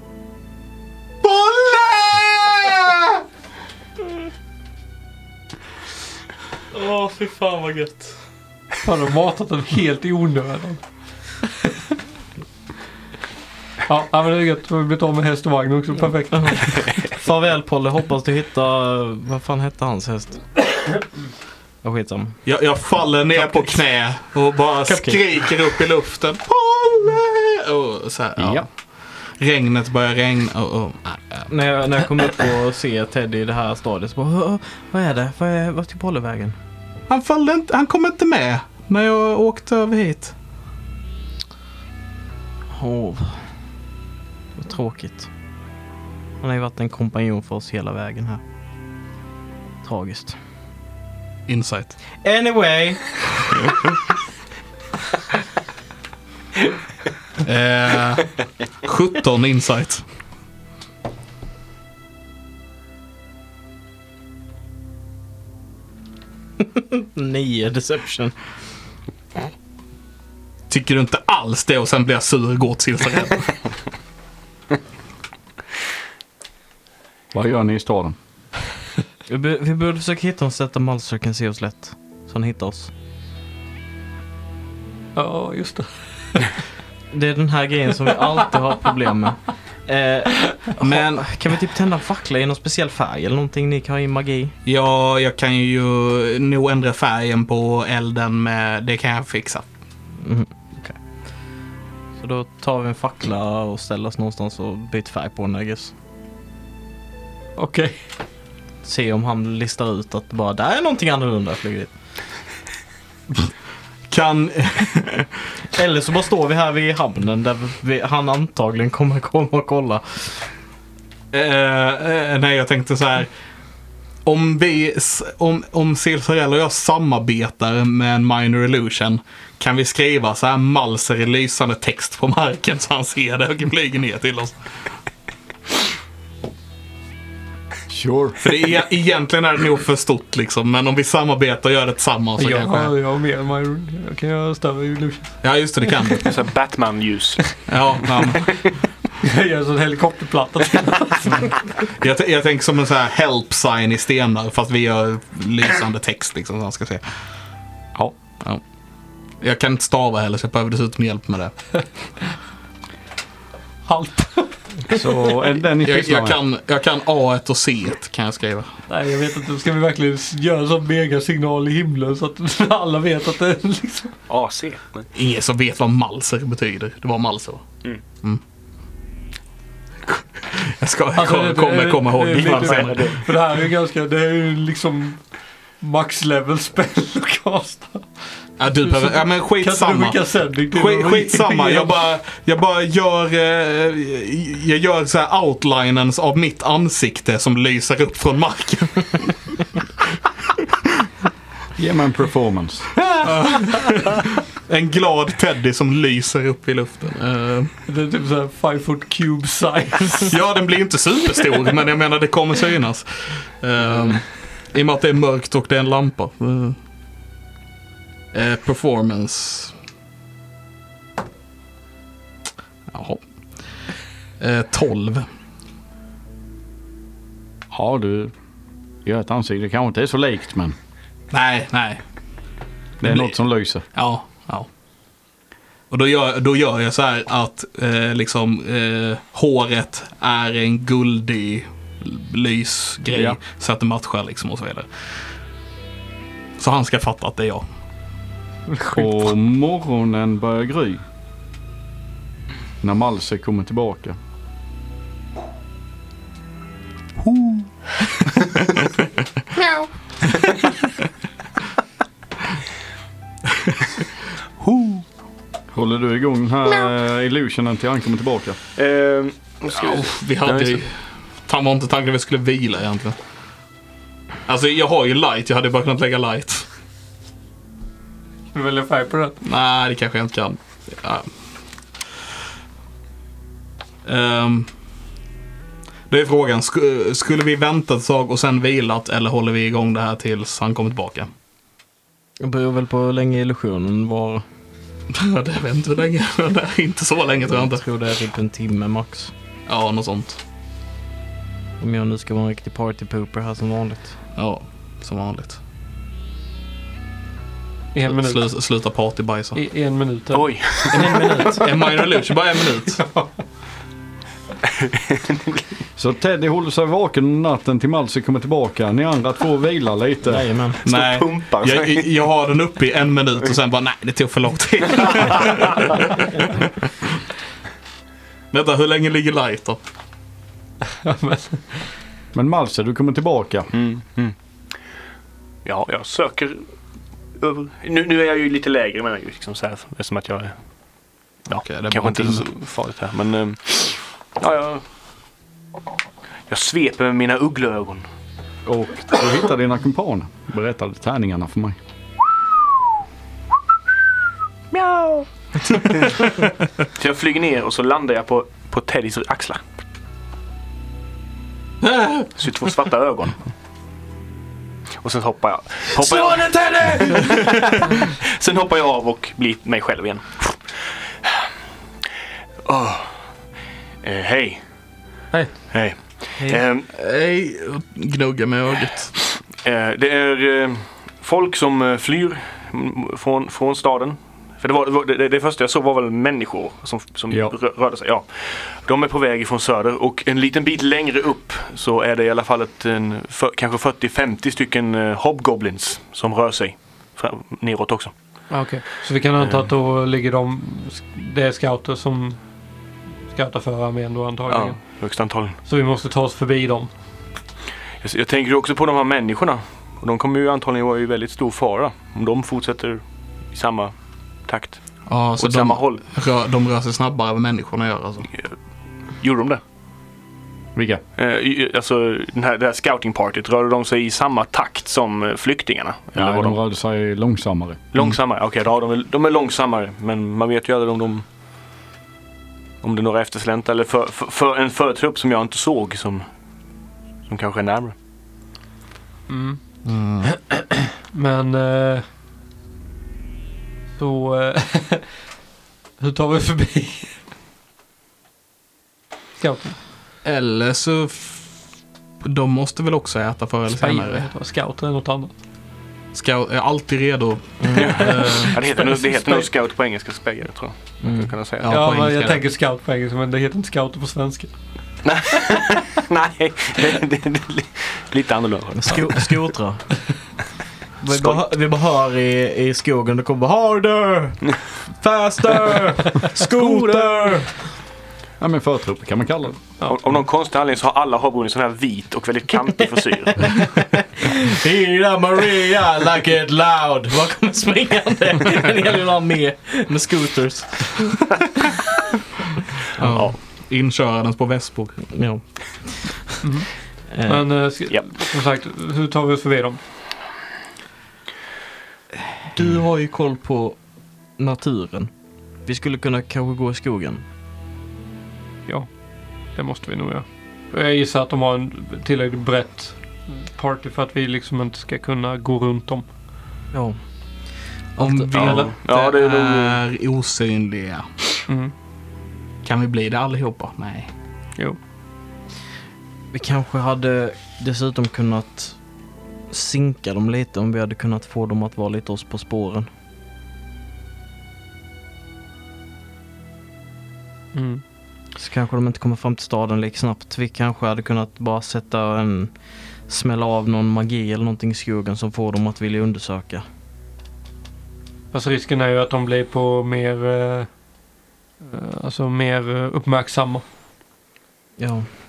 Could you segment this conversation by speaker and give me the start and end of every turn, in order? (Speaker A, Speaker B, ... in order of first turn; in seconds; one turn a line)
Speaker A: 1.2-2.5
Speaker B: 1.6-2.0
Speaker B: 6.7-8.2
Speaker C: 8.8-10.8
Speaker C: 13.9-16.9
Speaker B: 16.3-21.0
Speaker B: 21.8-22.4
Speaker A: 22.5-28.7
Speaker B: 24.9-25.4
Speaker D: 28.4-28.7
Speaker A: 29.4-31.5
Speaker B: 31.5-36.6
Speaker A: 37.1-40.3
Speaker B: 42.7-43.5
Speaker B: 44.6-45.3
Speaker B: 46.4-48.4
Speaker B: 49.8-50.4
Speaker A: 51.5-52.0
Speaker B: 52.2-53.2
Speaker A: 57.4-60.0
Speaker B: 66.6-68.3
Speaker A: 70.7-73.6
Speaker D: 77.3-78.2
Speaker B: 79.3-82.9
Speaker C: 85.2-86.6
Speaker B: 87.1-94.5
Speaker A: 90.8-91.3
Speaker A: 94.7-99.7
Speaker B: 100.2-101.0
Speaker B: 102.2-105.9
Speaker C: 107.6-108.0
Speaker B: 108.8-111.9
Speaker A: 114.1-115.3
Speaker B: 115.7-120.5
Speaker A: 121.3-123.3
Speaker A: 124.2-134.6
Speaker D: 137.9-138.4
Speaker A: 138.4-142.9
Speaker C: 142.4-145.4
Speaker A: 145.4-146.3
Speaker E: 146.2-147.7
Speaker A: 147.7-148.7
Speaker C: 149.2-151.6
Speaker A: 152.0-157.0
Speaker A: 159.4-161.5
Speaker C: 163.9-165.0
Speaker D: 164.9-166.4
Speaker A: 165.8-168.7
Speaker C: 168.9-174.2
Speaker E: 174.3-175.1
Speaker A: 175.1-177.6
Speaker A: 180.1-183.1
Speaker C: 181.2-188.1
Speaker E: 182.3-183.2
Speaker A: 188.6-199.6
Speaker C: 188.8-191.9
Speaker D: 201.8-202.9
Speaker A: 203.2-207.7
Speaker C: 207.9-210.3
Speaker A: 210.3-216.8
Speaker A: 218.3-219.7
Speaker A: 222.9-223.2
Speaker A: 224.4-225.3
Speaker D: 227.7-228.3
Speaker D: 229.1-230.8
Speaker A: 231.3-232.0
Speaker D: 233.0-233.8
Speaker A: 233.0-233.4
Speaker A: 233.9-234.7
Speaker A: 235.9-244.9
Speaker D: 243.1-243.4
Speaker A: 246.6-247.7
Speaker D: 248.9-251.0
Speaker D: 252.8-254.2
Speaker A: 257.3-257.6
Speaker E: 264.6-265.0
Speaker D: 265.7-268.6
Speaker E: 268.8-270.9
Speaker A: 269.7-273.2
Speaker A: 274.5-276.7
Speaker C: 278.5-279.4
Speaker A: 279.4-281.3
Speaker A: 284.1-284.7
Speaker A: 286.1-291.3
Speaker B: 292.4-294.4
Speaker A: 295.1-297.8
Speaker B: 297.5-299.3
Speaker A: 299.7-300.4
Speaker B: 301.8-304.1
Speaker A: 304.4-305.6
Speaker C: 307.9-308.4
Speaker A: 308.1-309.6
Speaker C: 309.6-311.2
Speaker E: 310.3-311.6
Speaker B: 310.9-311.7
Speaker A: 311.5-313.1
Speaker C: 313.0-313.3
Speaker E: 315.1-315.6
Speaker D: 316.0-320.5
Speaker B: 320.3-320.8
Speaker E: 320.8-322.1
Speaker A: 320.9-326.6
Speaker A: 328.5-329.8
Speaker C: 331.0-331.9
Speaker D: 332.3-333.7
Speaker E: 333.7-334.4
Speaker E: 335.6-336.7
Speaker E: 337.4-340.6
Speaker E: 341.5-344.9
Speaker A: 341.6-342.4
Speaker E: 346.5-348.1
Speaker D: 348.7-351.8
Speaker E: 356.9-359.7
Speaker A: 361.8-362.3
Speaker E: 362.4-363.4
Speaker E: 365.0-371.4
Speaker E: 372.7-373.3
Speaker E: 374.0-374.6
Speaker E: 375.7-376.9
Speaker A: 376.9-379.1
Speaker E: 379.2-398.1
Speaker C: 398.5-402.5
Speaker C: 403.3-405.0
Speaker E: 404.5-405.6
Speaker C: 405.6-406.9
Speaker E: 408.0-416.0
Speaker A: 415.1-418.3
Speaker E: 419.2-419.6
Speaker D: 420.8-421.0
Speaker E: 421.2-426.6
Speaker D: 426.1-427.9
Speaker E: 427.9-431.2
Speaker E: 432.8-436.3
Speaker E: 437.3-437.9
Speaker C: 439.3-439.6
Speaker A: 439.9-440.3
Speaker C: 441.0-442.1
Speaker C: 443.9-445.1
Speaker C: 446.0-447.2
Speaker C: 449.4-449.8
Speaker A: 450.2-451.5
Speaker A: 452.2-454.3
Speaker C: 453.8-455.3
Speaker A: 456.1-458.6
Speaker B: 457.6-458.0
Speaker E: 457.8-461.8
Speaker C: 457.9-459.5
Speaker B: 461.0-461.4
Speaker A: 461.6-462.4
Speaker C: 461.7-464.5
Speaker E: 465.1-469.4
Speaker B: 468.8-470.0
Speaker B: 471.0-477.5
Speaker E: 471.1-471.4
Speaker D: 476.6-477.1
Speaker D: 478.4-479.6
Speaker E: 479.8-483.8
Speaker B: 483.5-491.3
Speaker A: 493.0-495.0
Speaker B: 495.1-496.4
Speaker C: 496.4-496.7
Speaker B: 497.1-497.5
Speaker C: 497.2-499.8
Speaker B: 502.5-503.8
Speaker B: 504.4-505.1
Speaker B: 505.7-507.2
Speaker C: 508.7-508.9
Speaker C: 509.5-516.1
Speaker B: 516.7-517.0
Speaker B: 518.0-518.7
Speaker A: 518.0-521.1
Speaker E: 518.3-519.8
Speaker C: 521.5-521.7
Speaker A: 522.6-524.1
Speaker B: 526.3-528.8
Speaker B: 529.5-532.9
Speaker C: 537.5-537.8
Speaker B: 538.4-542.5
Speaker B: 543.1-546.6
Speaker C: 548.3-550.7
Speaker C: 551.6-553.6
Speaker B: 554.8-555.1